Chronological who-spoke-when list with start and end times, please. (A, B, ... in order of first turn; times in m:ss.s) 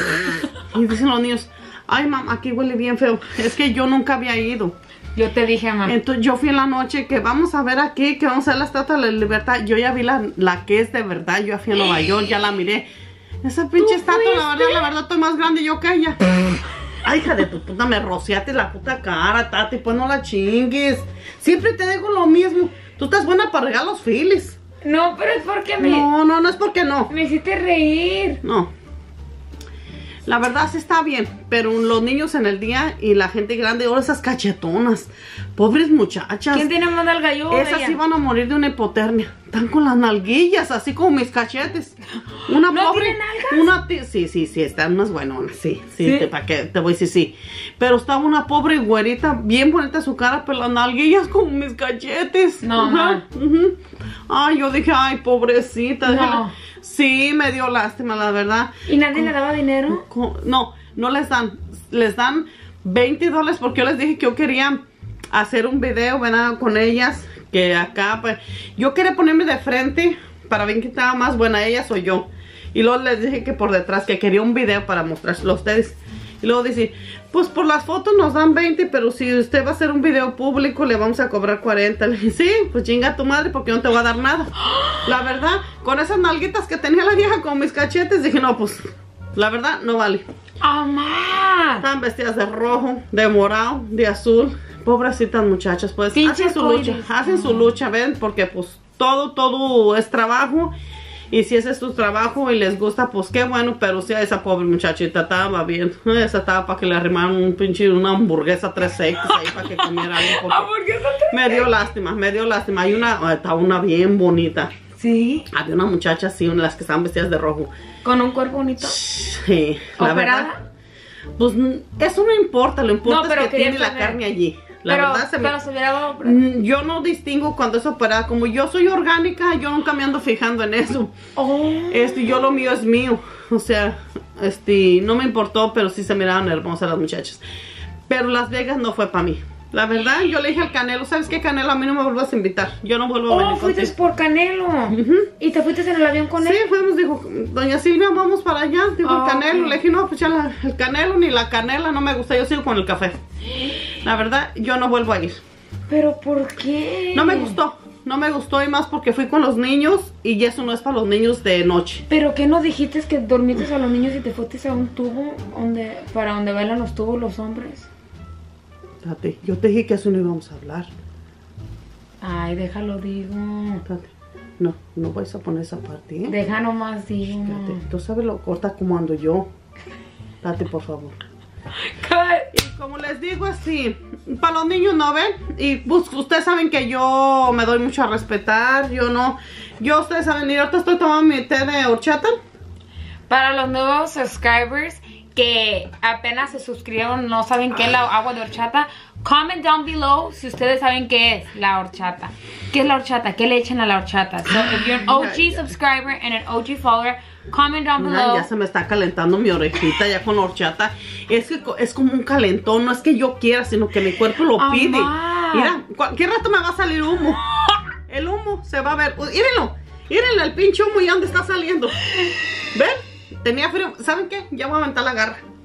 0:00.7-0:04.8 A
0:05.2-0:06.0 B
0:05.8-0:12.9 A
0:13.4-0:16.2 A
0:13.8-0:14.9 B
0:17.0-0:24.6 A
0:24.8-0:26.1 B
0:25.8-0:27.1 A
0:27.1-0:28.4 B
0:28.4-0:28.7 A
0:30.3-0:36.7 A
0:36.5-0:38.0 B
0:37.5-0:42.0 A
0:42.4-0:43.7 B
0:42.5-0:53.8 A
0:46.0-0:46.3 B
0:52.6-0:53.2 B
0:54.3-0:59.3 A
0:56.0-0:56.6 B
0:58.9-1:00.0 B
0:59.9-1:04.8 A
1:05.3-1:24.5 A
1:24.7-1:25.0 B
1:25.0-1:30.2 A
1:30.6-1:31.8 B
1:31.8-1:40.7 A
1:36.1-1:37.7 B
1:41.3-1:50.7 A
1:49.2-1:51.7 B
1:51.3-1:54.7 A
1:55.0-1:55.5 B
1:55.5-1:57.7 A
1:58.0-1:59.0 B
1:58.8-2:00.5 A
2:00.0-2:00.6 B
2:01.4-2:05.5 A
2:03.0-2:04.2 B
2:04.9-2:06.4 B
2:06.2-2:11.2 A
2:11.4-2:12.5 B
2:11.9-2:17.4 A
2:18.1-2:23.9 A
2:23.3-2:26.6 B
2:24.9-2:25.3 A
2:26.4-2:33.2 A
2:29.0-2:29.8 B
2:33.8-2:35.4 A
2:35.9-2:37.6 B
2:37.1-2:42.0 A
2:42.1-2:47.9 B
2:49.0-2:50.9 A
2:52.2-2:53.8 B
2:53.8-2:56.4 A
2:56.3-2:57.8 B
2:57.4-2:59.5 A
3:00.4-3:01.2 A
3:01.8-3:02.5 B
3:02.5-3:12.4 A
3:13.3-3:28.5 B
3:24.7-3:25.7 A
3:28.0-3:37.4 A
3:34.6-3:35.8 B
3:38.1-3:42.0 A
3:42.1-3:42.4 B
3:42.7-3:45.4 A